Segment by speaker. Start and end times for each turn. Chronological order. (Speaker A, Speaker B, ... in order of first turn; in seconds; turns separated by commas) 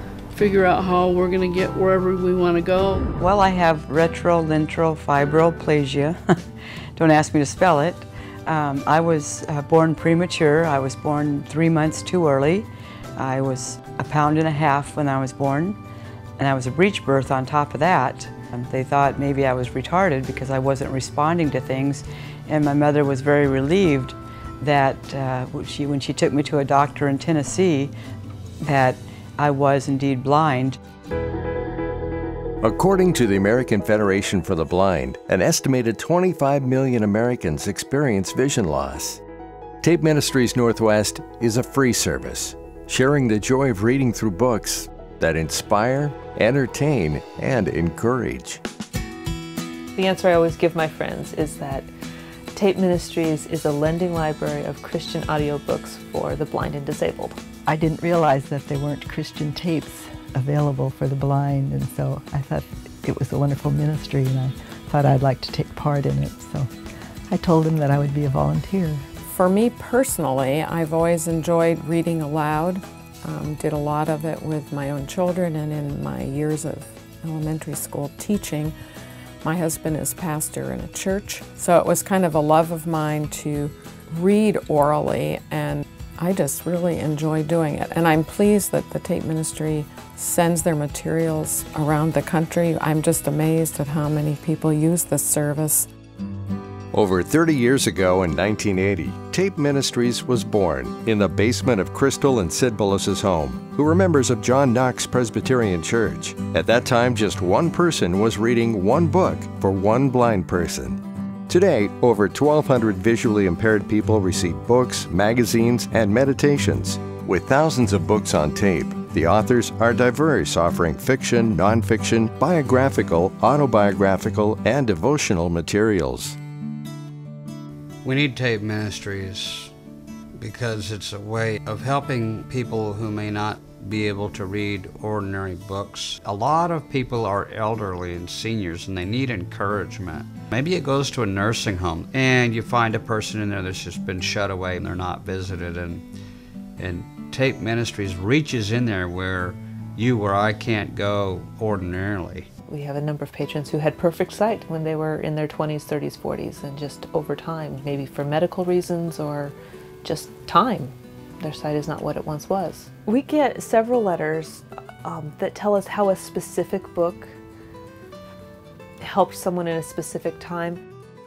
Speaker A: 0.3-3.1, Speaker B: 3.2-6.4, Speaker B: 7.0-15.8, Speaker B: 16.4-27.9, Speaker B: 28.6-30.8, Speaker C: 32.6-39.2, Speaker C: 39.8-48.6, Speaker D: 50.0-51.9, Speaker D: 52.5-57.4, Speaker E: 57.7-66.7, Speaker E: 67.3-69.0, Speaker F: 69.2-78.7, Speaker F: 79.4-95.9, Speaker C: 96.9-126.4, Speaker G: 128.0-129.7, Speaker G: 130.4-146.0, Speaker G: 146.8-152.5, Speaker D: 152.7-167.4, Speaker D: 169.0-170.8